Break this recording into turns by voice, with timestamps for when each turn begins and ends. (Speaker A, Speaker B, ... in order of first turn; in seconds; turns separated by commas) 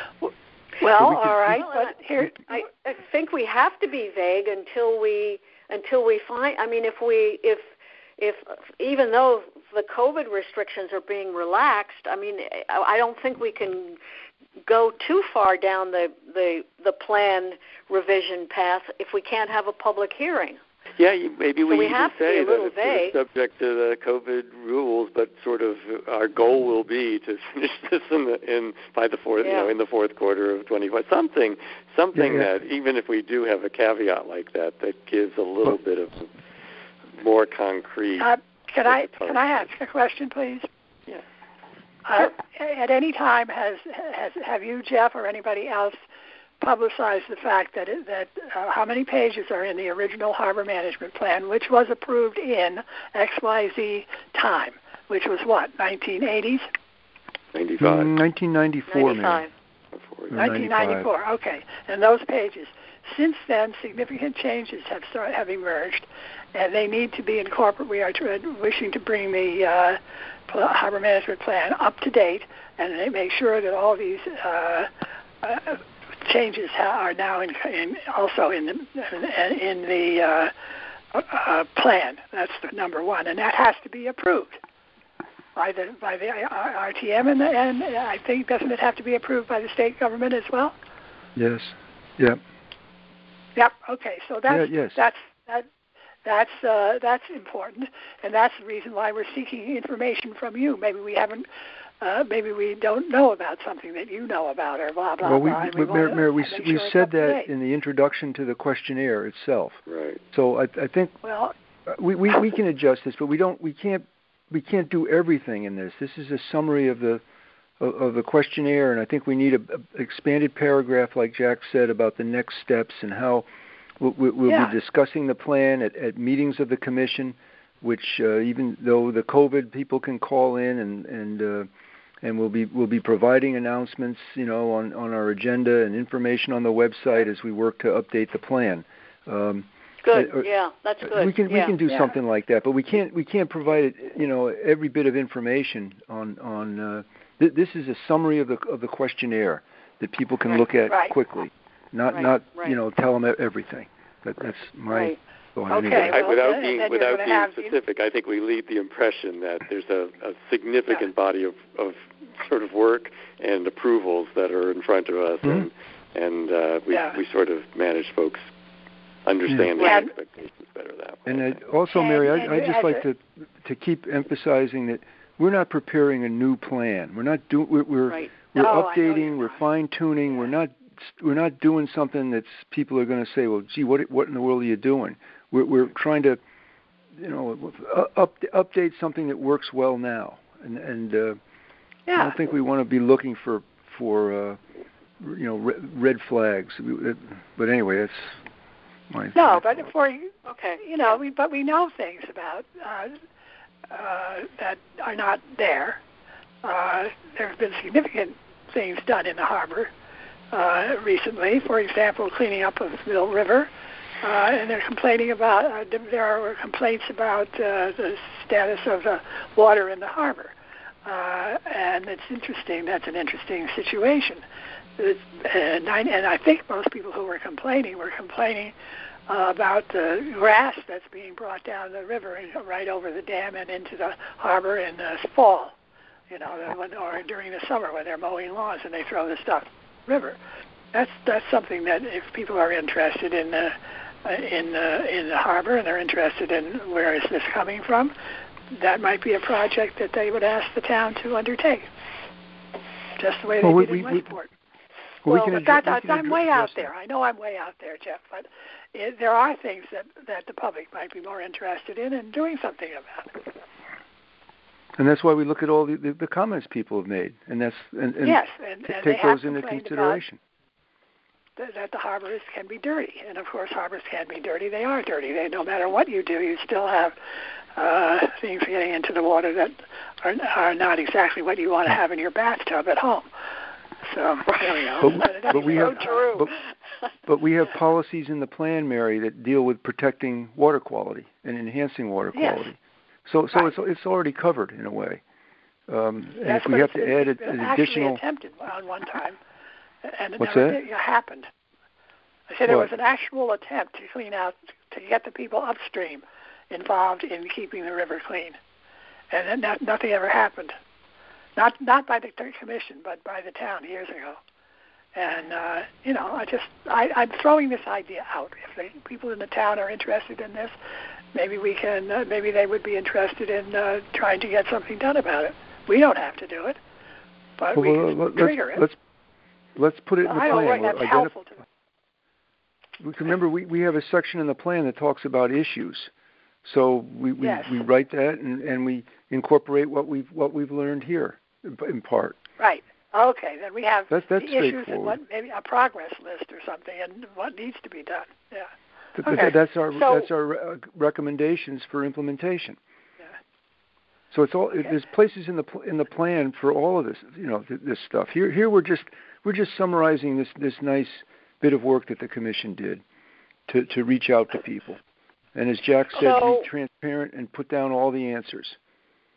Speaker A: 0.2-2.6, Speaker B: 0.9-1.6, Speaker C: 1.5-14.0, Speaker C: 14.7-20.6, Speaker D: 21.0-36.3, Speaker C: 21.6-23.2, Speaker C: 29.4-29.7, Speaker B: 32.1-32.5, Speaker D: 37.2-39.6, Speaker A: 38.2-40.7, Speaker A: 42.0-46.0, Speaker A: 46.6-56.7, Speaker D: 57.5-58.1, Speaker B: 57.8-59.4, Speaker C: 58.9-59.5, Speaker D: 59.9-60.5, Speaker B: 60.3-61.1, Speaker A: 60.4-74.9, Speaker A: 75.4-80.5, Speaker A: 81.1-84.6, Speaker A: 85.5-90.8, Speaker B: 91.4-92.4, Speaker A: 93.5-95.7, Speaker B: 94.5-95.0, Speaker A: 96.2-101.5, Speaker A: 102.0-107.5, Speaker B: 105.2-109.8, Speaker D: 109.9-110.2, Speaker B: 110.3-111.1, Speaker A: 111.2-111.5, Speaker B: 111.9-117.2, Speaker B: 117.8-123.5, Speaker B: 124.0-131.7, Speaker A: 124.5-124.7, Speaker B: 132.2-140.5, Speaker C: 140.0-141.8, Speaker B: 141.0-156.3, Speaker A: 150.9-151.1, Speaker C: 152.1-152.8, Speaker C: 154.9-155.2, Speaker A: 155.7-157.7, Speaker D: 155.9-168.5, Speaker A: 166.9-167.2, Speaker D: 169.2-171.6, Speaker B: 169.5-169.7, Speaker C: 169.8-170.1, Speaker A: 169.8-170.1, Speaker B: 171.2-186.4, Speaker A: 171.9-173.0, Speaker A: 178.6-179.6, Speaker B: 187.2-191.4, Speaker A: 192.1-192.4, Speaker B: 192.1-194.6, Speaker B: 195.2-198.4, Speaker B: 199.1-199.9, Speaker A: 199.3-203.2, Speaker C: 200.4-201.2, Speaker A: 203.9-206.0, Speaker A: 206.6-209.9, Speaker A: 210.5-220.5, Speaker A: 221.0-224.4, Speaker A: 225.0-228.7, Speaker A: 229.3-235.8, Speaker A: 236.3-240.4, Speaker A: 240.9-248.1, Speaker A: 248.7-251.9, Speaker A: 253.2-254.5, Speaker B: 253.6-254.3, Speaker B: 255.2-256.9, Speaker A: 255.2-263.4, Speaker B: 265.0-270.4, Speaker A: 268.2-270.2, Speaker A: 271.6-277.2, Speaker A: 277.8-283.3, Speaker A: 284.0-286.4, Speaker B: 285.0-286.6, Speaker C: 285.1-286.5, Speaker B: 287.2-295.2, Speaker A: 292.3-292.7, Speaker B: 295.9-298.2, Speaker A: 296.4-299.4, Speaker A: 300.0-301.5, Speaker B: 300.4-300.8, Speaker A: 302.5-308.6, Speaker B: 302.6-302.9, Speaker A: 309.3-310.7, Speaker A: 311.6-314.4, Speaker A: 315.1-320.8, Speaker A: 321.3-326.8, Speaker A: 327.6-328.9, Speaker B: 327.7-329.0, Speaker B: 329.8-331.3, Speaker A: 330.2-331.6, Speaker C: 330.5-330.8, Speaker B: 333.0-336.1, Speaker B: 336.6-342.4, Speaker A: 337.4-337.8, Speaker A: 342.6-348.7, Speaker B: 344.1-345.2, Speaker B: 349.1-352.8, Speaker A: 349.2-349.5, Speaker C: 349.9-350.3, Speaker B: 354.3-363.0, Speaker B: 363.7-365.0, Speaker B: 365.5-368.8, Speaker C: 366.1-366.7